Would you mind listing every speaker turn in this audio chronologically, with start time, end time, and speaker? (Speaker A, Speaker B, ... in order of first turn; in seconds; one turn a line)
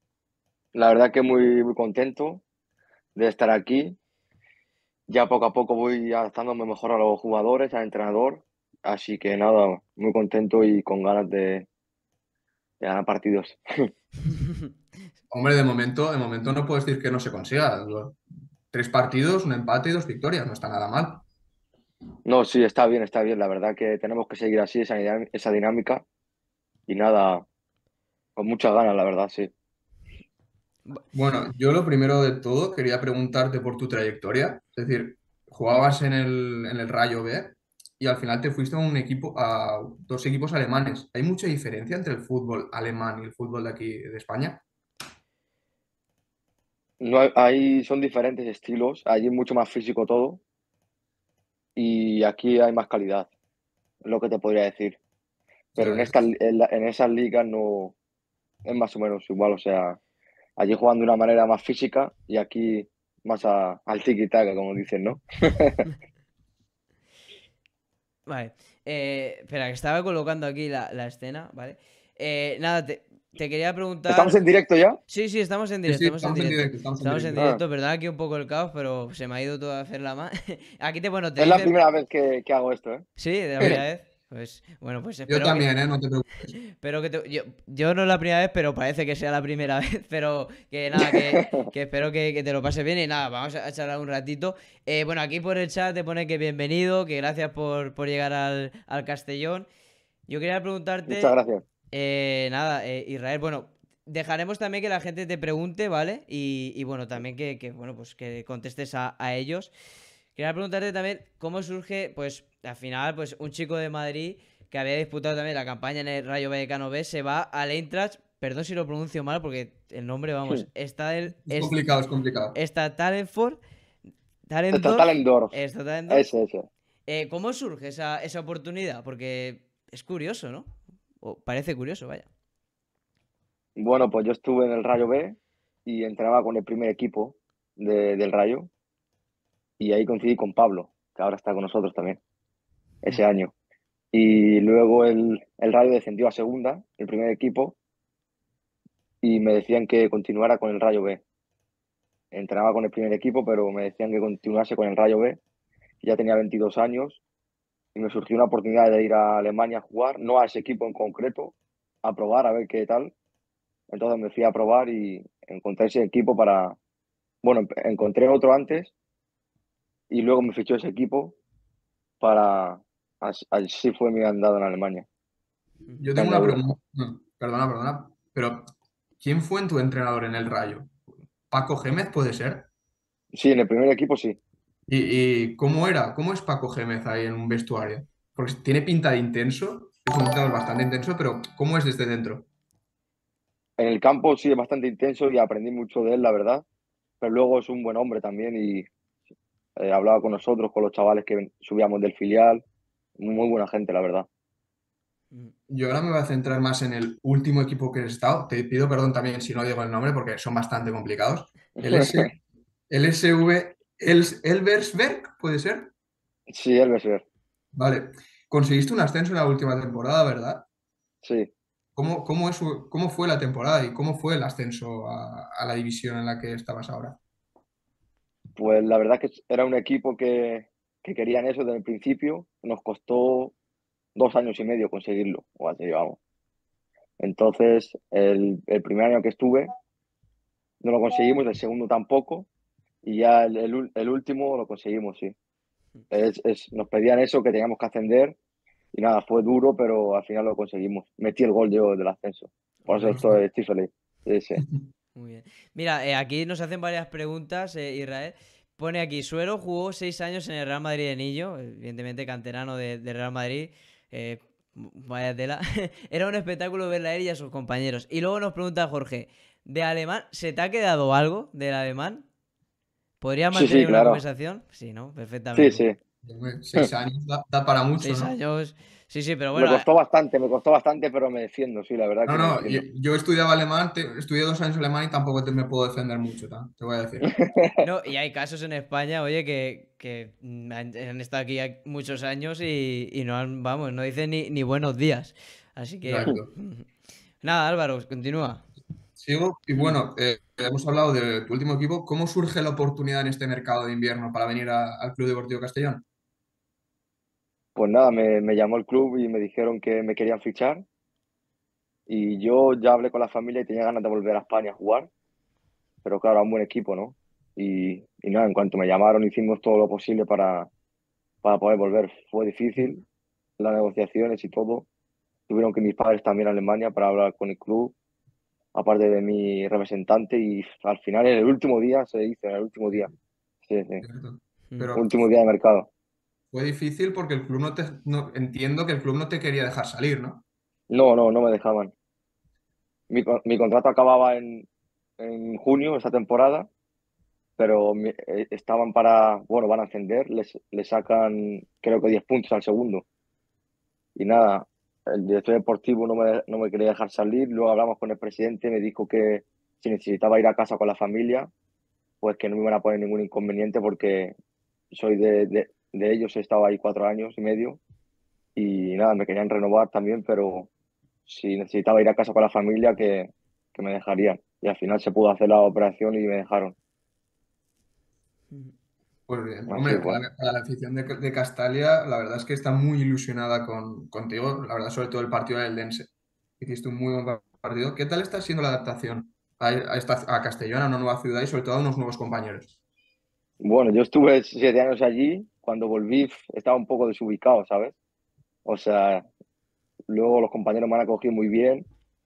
Speaker A: 0.7-2.4
Speaker A: 3.1-4.0
Speaker A: 5.1-11.7
Speaker A: 12.8-13.6
Speaker B: 14.2-14.7
Speaker C: 15.3-18.2
Speaker C: 18.7-21.2
Speaker A: 22.2-26.0
Speaker A: 26.9-27.4
Speaker A: 28.4-29.5
Speaker C: 31.1-44.6
Speaker A: 47.0-50.4
Speaker A: 51.8-53.3
Speaker A: 54.0-55.0
Speaker C: 55.8-56.2
Speaker A: 55.8-58.0
Speaker A: 58.6-60.0
Speaker A: 60.6-65.8
Speaker B: 68.3-74.4
Speaker A: 74.1-75.0
Speaker B: 75.1-81.8
Speaker C: 75.8-77.4
Speaker A: 77.3-77.6
Speaker A: 81.4-83.0
Speaker B: 83.2-85.7
Speaker C: 85.3-86.5
Speaker B: 86.7-99.7
Speaker A: 91.0-91.7
Speaker B: 100.3-101.3
Speaker A: 101.1-101.6
Speaker B: 101.9-109.7
Speaker B: 110.3-121.8
Speaker C: 121.5-122.5
Speaker B: 122.5-123.6
Speaker B: 124.5-126.3
Speaker A: 124.7-125.6
Speaker A: 126.1-126.7
Speaker B: 127.1-132.3
Speaker A: 133.8-138.7
Speaker A: 139.8-142.2
Speaker A: 143.0-143.5
Speaker A: 144.1-147.8
Speaker A: 149.2-151.2
Speaker A: 152.3-155.4
Speaker A: 156.0-157.2
Speaker A: 157.9-163.1
Speaker A: 163.9-166.8
Speaker A: 167.4-168.9
Speaker A: 170.1-171.4
Speaker A: 172.2-175.1
Speaker C: 176.0-178.7
Speaker A: 176.2-176.6
Speaker C: 179.2-180.9
Speaker C: 181.5-182.7
Speaker A: 183.3-184.4
Speaker C: 184.9-192.5
Speaker A: 193.8-196.6
Speaker A: 197.2-198.9
Speaker A: 199.8-202.6
Speaker A: 203.2-204.3
Speaker C: 205.7-212.3
Speaker A: 211.8-212.2
Speaker C: 212.9-215.9
Speaker A: 216.5-217.2
Speaker C: 217.7-220.7
Speaker A: 221.2-221.5
Speaker C: 221.9-227.2
Speaker A: 228.6-233.5
Speaker A: 234.1-236.2
Speaker A: 237.2-239.7
Speaker A: 240.8-242.5
Speaker A: 243.0-245.3
Speaker A: 246.1-248.4
Speaker A: 248.9-254.6
Speaker C: 252.9-253.4
Speaker B: 255.1-272.2
Speaker B: 273.2-275.8
Speaker A: 273.5-274.2
Speaker A: 275.5-276.0
Speaker C: 276.2-278.3
Speaker B: 278.0-279.9
Speaker A: 279.6-282.8
Speaker C: 282.2-287.3
Speaker A: 287.4-287.8
Speaker B: 287.8-296.9
Speaker C: 296.0-296.5
Speaker B: 297.4-298.6
Speaker C: 299.2-306.0
Speaker A: 307.8-310.8
Speaker A: 312.1-315.1
Speaker A: 316.0-320.7
Speaker A: 321.4-323.0
Speaker A: 323.6-324.9
Speaker A: 325.5-327.9
Speaker A: 328.7-333.1
Speaker A: 333.6-334.0
Speaker C: 334.0-335.1
Speaker A: 334.9-335.9
Speaker C: 336.5-340.4
Speaker A: 340.9-341.9
Speaker A: 343.1-344.7
Speaker A: 345.2-346.7
Speaker A: 347.6-353.0
Speaker A: 354.1-361.5
Speaker A: 362.2-364.3
Speaker A: 364.9-367.8
Speaker A: 368.6-370.7
Speaker A: 371.3-376.7
Speaker C: 379.3-392.7
Speaker A: 379.7-380.2
Speaker A: 393.6-397.9
Speaker A: 398.6-399.2
Speaker A: 400.1-401.9